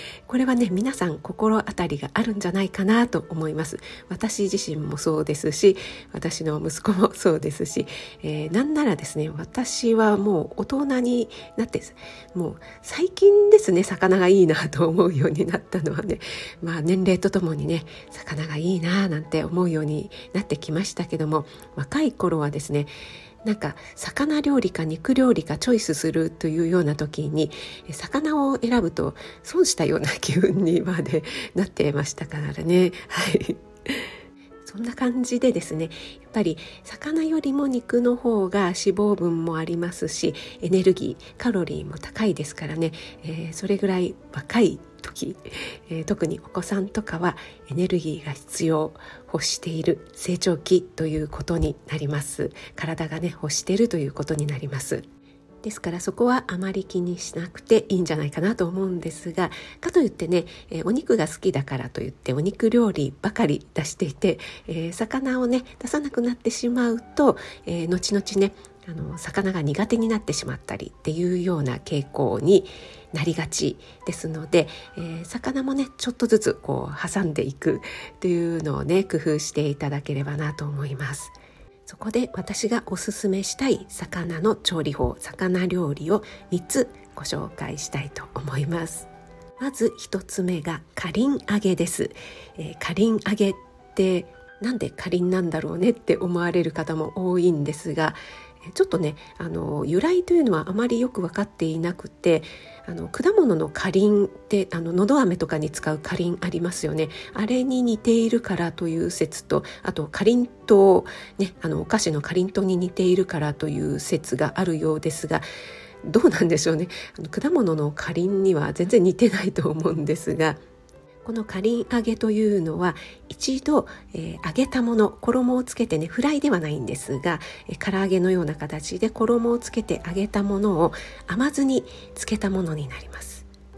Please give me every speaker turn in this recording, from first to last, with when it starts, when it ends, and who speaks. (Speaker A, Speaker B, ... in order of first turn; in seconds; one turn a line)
Speaker A: 0.3-22.9
Speaker A: 23.4-34.0
Speaker A: 34.6-55.0
Speaker A: 55.6-81.3
Speaker A: 81.9-89.1
Speaker A: 89.6-115.4
Speaker A: 116.0-120.6
Speaker A: 121.2-133.5